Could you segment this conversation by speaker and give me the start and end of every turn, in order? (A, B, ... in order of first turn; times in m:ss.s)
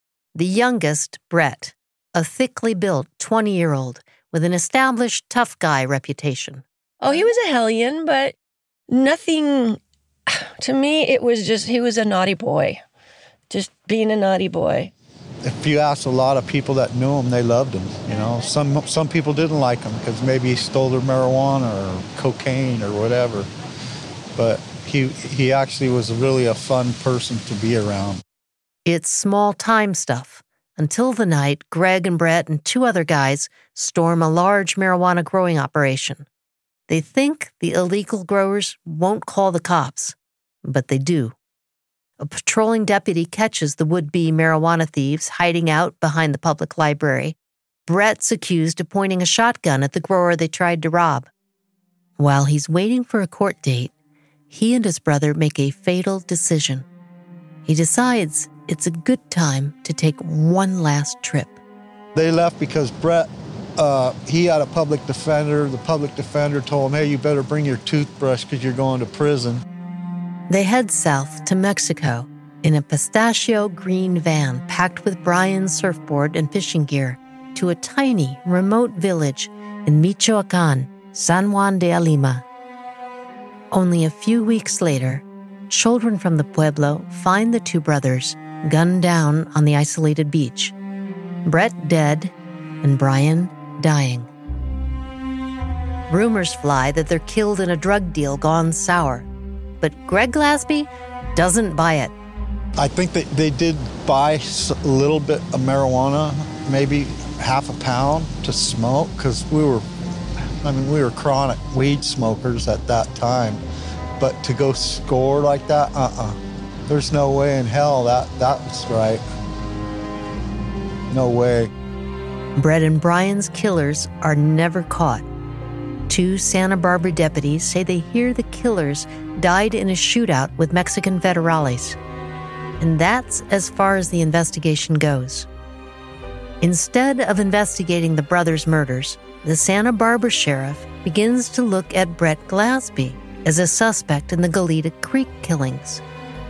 0:00.3-0:06.6 A
0:07.0-0:08.3 B
0:08.9-0:12.8 B
0:13.5-0:14.9 B
0:15.4-0:23.5 C
0:24.3-0:28.2 C
0:28.8-0:36.2 A
0:36.9-0:41.3 A
0:42.2-0:47.4 A
0:47.9-0:51.3 A
0:52.2-0:53.9 A
0:54.5-0:56.8 A
0:57.6-1:01.6 A
1:02.1-1:09.6 C
1:10.5-1:22.4 A
1:23.7-1:30.7 A
1:31.4-1:34.3 A
1:36.1-1:39.3 A
1:39.8-1:42.1 A
1:42.8-1:49.8 C
1:50.6-1:53.6 C
1:54.2-1:59.2 C
2:01.1-2:01.7 C
2:02.6-2:05.2 A
2:06.1-2:12.0 A
2:12.8-2:15.5 A
2:16.6-2:26.0 A